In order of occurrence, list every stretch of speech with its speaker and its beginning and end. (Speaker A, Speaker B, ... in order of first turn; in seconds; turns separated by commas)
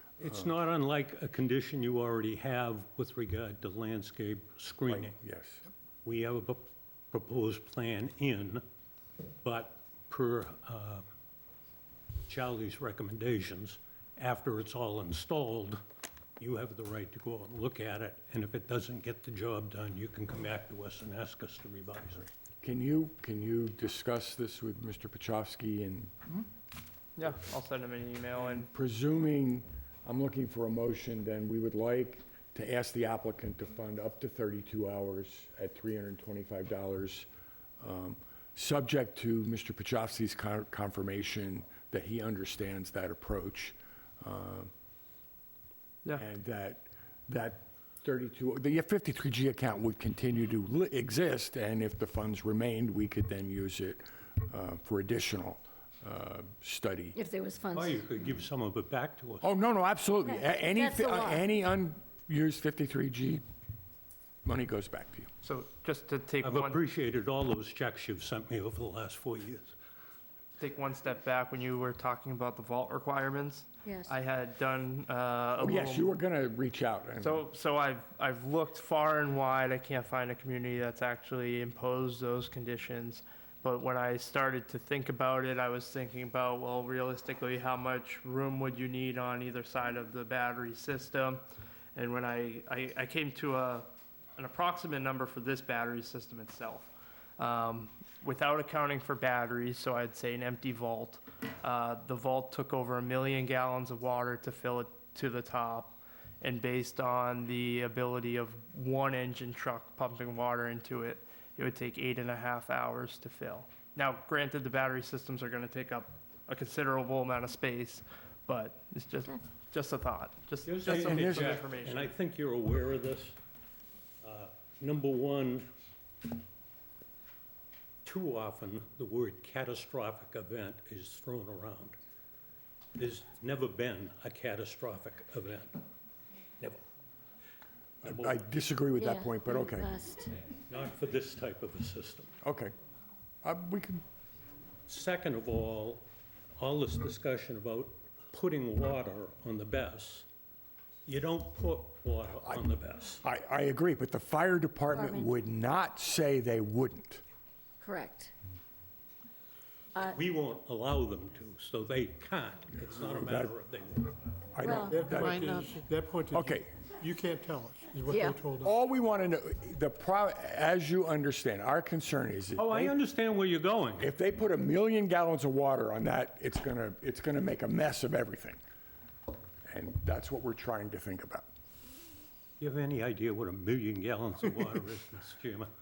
Speaker A: 0.2-5.2, Speaker B: 4.9-5.6, Speaker A: 6.0-8.6, Speaker A: 9.4-11.0, Speaker A: 12.3-15.8, Speaker A: 16.4-22.3, Speaker B: 22.6-26.2, Speaker C: 27.2-28.7, Speaker B: 28.6-37.3, Speaker B: 37.8-44.7, Speaker B: 46.2-57.2, Speaker D: 57.1-58.0, Speaker A: 57.7-59.5, Speaker B: 59.4-63.4, Speaker D: 60.2-61.5, Speaker B: 64.5-65.3, Speaker C: 65.4-66.8, Speaker A: 66.4-69.8, Speaker C: 70.6-76.1, Speaker D: 73.8-74.2, Speaker B: 75.6-77.4, Speaker C: 77.2-91.4, Speaker C: 92.0-122.1, Speaker A: 120.7-123.4, Speaker B: 120.9-121.6, Speaker A: 124.2-125.7, Speaker A: 128.1-132.0, Speaker A: 133.0-135.8, Speaker B: 138.0-139.9, Speaker A: 138.1-138.4, Speaker D: 139.0-140.3, Speaker A: 140.7-142.3, Speaker B: 142.4-142.7, Speaker B: 143.4-144.0, Speaker A: 144.9-146.0, Speaker A: 146.6-150.3, Speaker A: 151.1-153.2, Speaker B: 153.2-157.2, Speaker D: 154.9-155.3, Speaker D: 157.8-158.3, Speaker A: 160.1-164.2, Speaker B: 163.0-163.5, Speaker B: 164.5-165.7, Speaker D: 164.6-165.0, Speaker E: 164.7-168.7, Speaker B: 166.3-166.7, Speaker D: 168.1-168.4, Speaker B: 168.6-172.9, Speaker A: 172.6-174.1, Speaker B: 174.0-178.6, Speaker B: 179.7-181.5, Speaker A: 182.6-185.7